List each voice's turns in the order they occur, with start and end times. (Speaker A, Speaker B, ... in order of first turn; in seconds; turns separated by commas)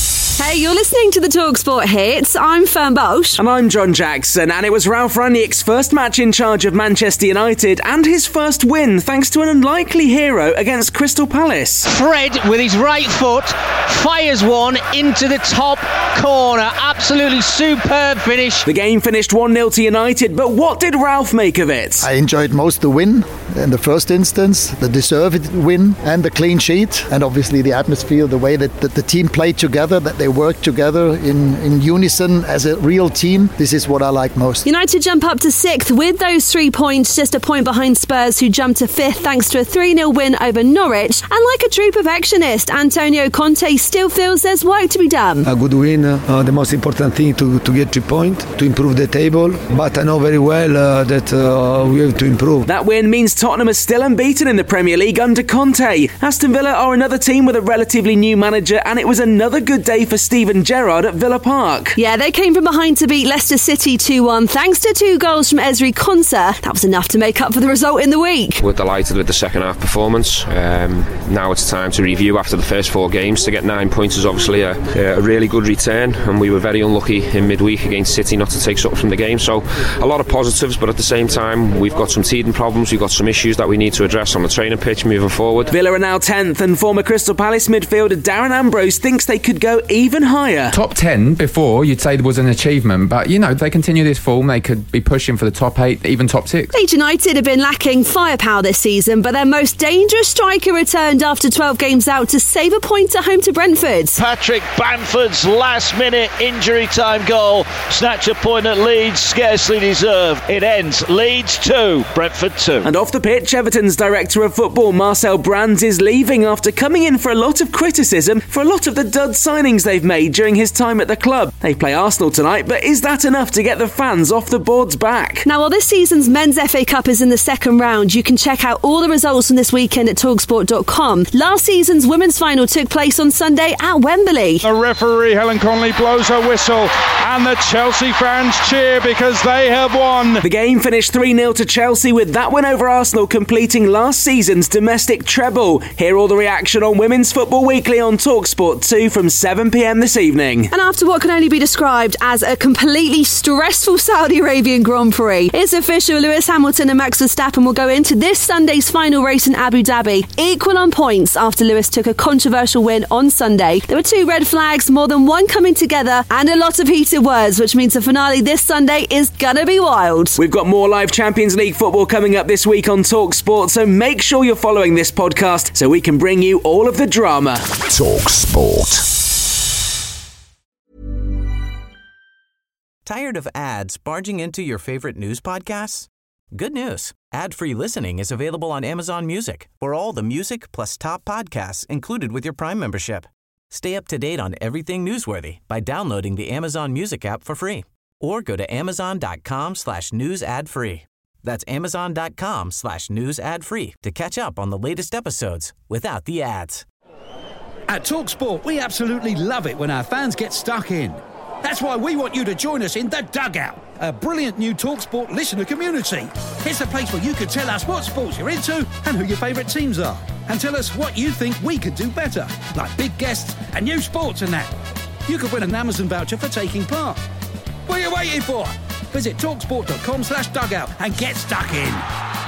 Speaker A: 0.4-3.4, Speaker B: 3.4-11.9, Speaker C: 11.9-18.6, Speaker B: 18.7-22.1, Speaker D: 22.0-34.7, Speaker A: 34.6-45.5, Speaker E: 45.4-52.7, Speaker B: 52.6-62.0, Speaker A: 62.0-68.6, Speaker F: 68.6-85.7, Speaker B: 85.7-90.8, Speaker G: 90.7-96.7, Speaker A: 96.7-104.2, Speaker H: 104.2-112.9, Speaker B: 112.8-125.5, Speaker A: 125.5-134.6, Speaker I: 134.6-140.5, Speaker B: 140.5-150.7, Speaker A: 150.7-170.4, Speaker B: 170.4-177.6, Speaker J: 183.1-206.8, Speaker K: 207.9-224.7, Speaker K: 225.3-227.2, Speaker K: 227.9-232.1